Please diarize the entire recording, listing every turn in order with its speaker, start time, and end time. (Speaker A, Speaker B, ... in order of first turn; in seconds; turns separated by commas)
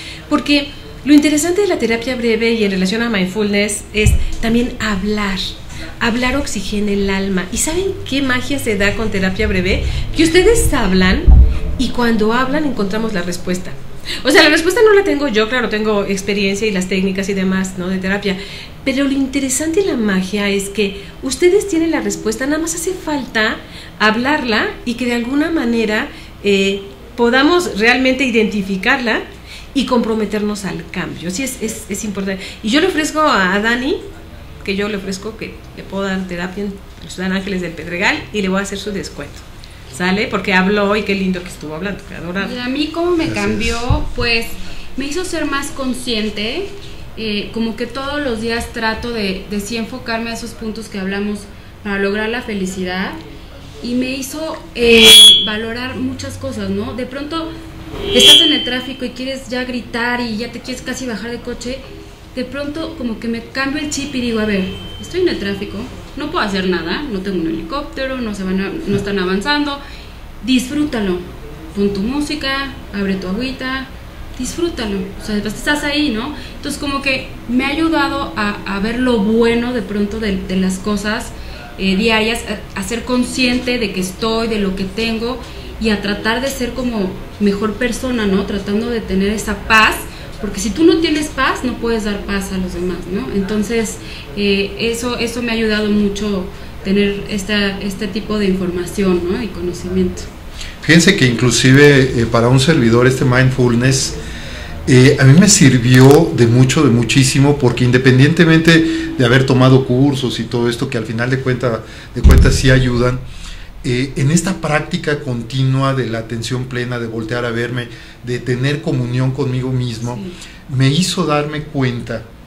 Speaker A: 0.3-29.2, Speaker A: 29.7-34.0, Speaker A: 34.6-42.5, Speaker B: 42.4-53.2, Speaker C: 43.2-43.8, Speaker B: 53.8-57.5, Speaker B: 58.1-61.8, Speaker B: 62.3-69.8, Speaker B: 70.4-100.3, Speaker C: 100.8-104.2, Speaker C: 104.9-113.2, Speaker C: 113.8-122.3, Speaker B: 120.1-120.3